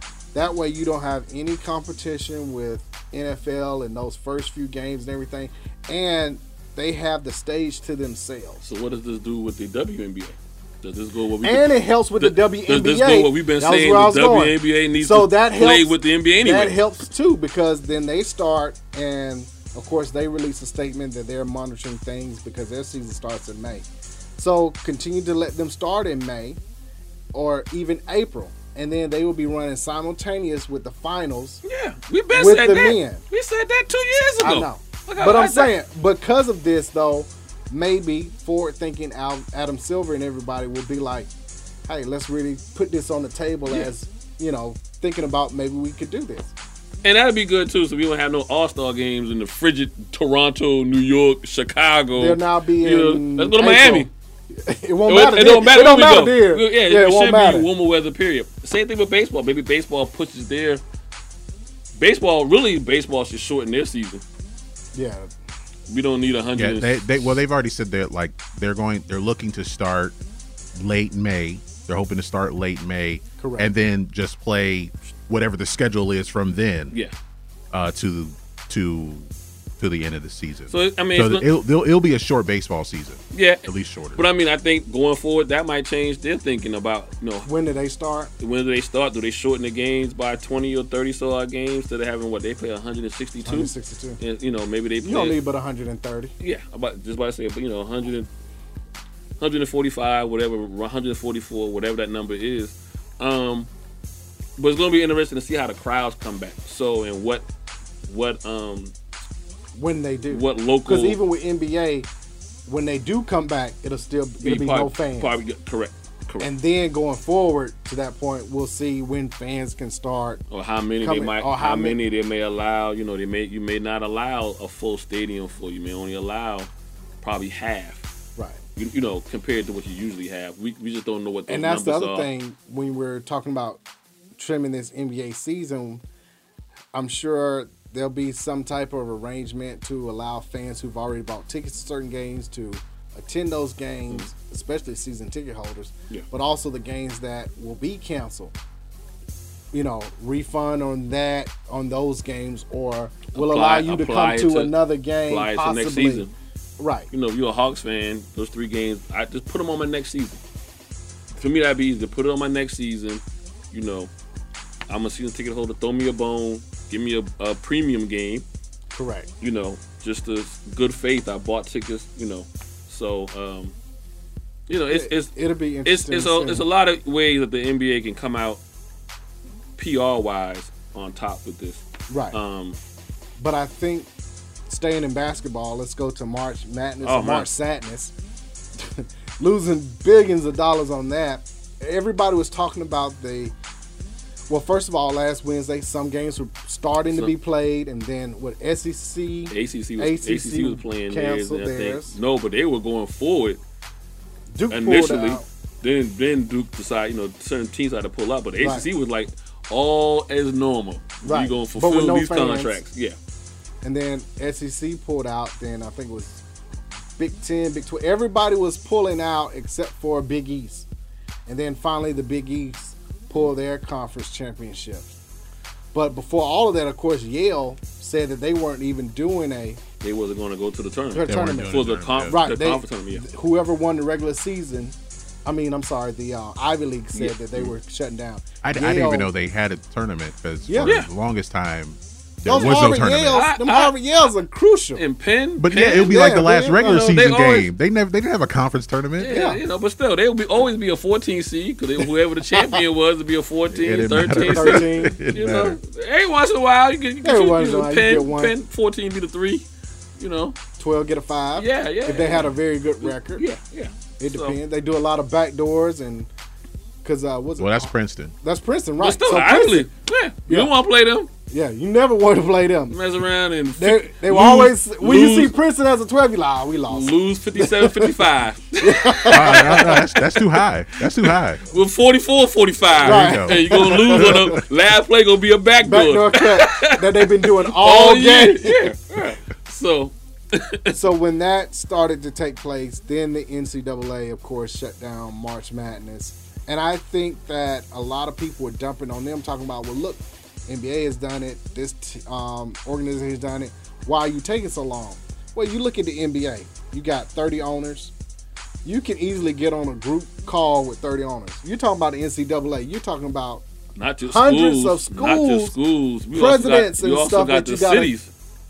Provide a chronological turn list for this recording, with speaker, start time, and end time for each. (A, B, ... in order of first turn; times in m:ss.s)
0:00.3-0:08.6 A
0:08.6-0:16.8 B
0:11.4-0:23.8 A
0:24.4-0:26.6 A
0:27.3-0:31.6 A
0:31.6-0:35.7 B
0:32.3-0:33.2 A
0:34.4-0:41.3 A
0:41.8-0:46.5 A
0:43.7-0:43.9 B
0:47.0-0:54.1 B
0:52.2-0:54.1 A
0:54.6-0:57.7 A
0:55.1-1:00.8 B
1:02.0-1:04.2 B
1:04.9-1:05.3 A
1:05.9-1:07.3 B
1:06.6-1:10.2 C
1:10.7-1:16.9 C
1:13.4-1:13.7 A
1:17.7-1:24.2 C
1:20.7-1:21.4 B
1:23.3-1:27.5 B
1:27.4-1:28.3 A
1:28.4-1:35.4 B
1:33.4-1:34.2 A
1:35.0-1:36.3 A
1:36.4-1:38.3 B
1:39.4-1:43.7 B
1:44.6-1:47.4 B
1:48.0-1:48.9 B
1:49.7-1:52.1 A
1:50.3-1:51.2 B
1:52.7-1:55.3 A
1:54.4-1:56.5 B
1:56.4-2:00.4 A
2:00.5-2:06.7 B
2:01.0-2:02.0 A
2:07.2-2:08.0 B
2:08.8-2:12.3 B
2:11.5-2:13.8 A
2:14.4-2:16.0 A
2:16.9-2:28.5 A
2:29.7-2:36.2 A
2:33.3-2:36.3 B
2:36.8-2:37.1 A
2:37.1-2:40.4 B
2:41.4-2:44.1 B
2:44.9-2:48.4 B
2:48.9-2:49.3 A
2:49.4-2:53.7 B
2:54.7-2:55.3 B
2:54.9-2:56.6 A
2:55.8-2:58.6 B
2:59.8-3:02.8 B
3:02.1-3:02.4 A
3:03.4-3:04.1 A
3:04.7-3:08.1 A
3:07.0-3:07.5 B
3:08.8-3:13.5 A
3:14.5-3:22.2 A
3:19.5-3:23.6 B
3:24.5-3:25.4 A
3:24.7-3:33.2 B
3:28.6-3:28.8 A
3:31.2-3:32.8 A
3:33.8-3:36.4 A
3:37.2-3:40.8 A
3:41.4-3:45.1 A
3:45.9-3:49.8 A
3:50.0-3:53.2 B
3:51.1-3:51.7 A
3:51.3-3:52.4 C
3:52.3-3:59.3 A
3:57.1-3:57.7 B
3:58.6-4:03.4 C
4:00.7-4:01.0 A
4:00.8-4:01.1 B
4:02.4-4:05.0 A
4:03.3-4:03.9 B
4:05.0-4:07.7 B
4:05.6-4:09.3 C
4:05.8-4:07.1 A
4:09.2-4:19.6 B
4:09.3-4:09.6 A
4:13.7-4:15.8 C
4:14.4-4:15.2 A
4:17.2-4:18.5 A
4:20.2-4:20.6 B
4:20.8-4:23.4 A
4:21.6-4:24.6 B
4:24.2-4:26.3 A
4:27.0-4:29.9 A
4:27.6-4:28.3 C
4:29.0-4:31.3 B
4:31.5-4:33.0 A
4:32.9-4:35.5 B
4:33.8-4:38.1 A
4:36.9-4:51.0 B
4:38.8-4:40.0 A
4:39.3-4:41.6 C
4:43.0-4:44.6 C
4:43.0-4:44.6 A
4:45.8-4:48.9 A
4:50.9-5:08.1 A
5:08.8-5:13.6 A
5:14.0-5:18.3 B
5:14.2-5:15.7 A
5:16.3-5:18.1 A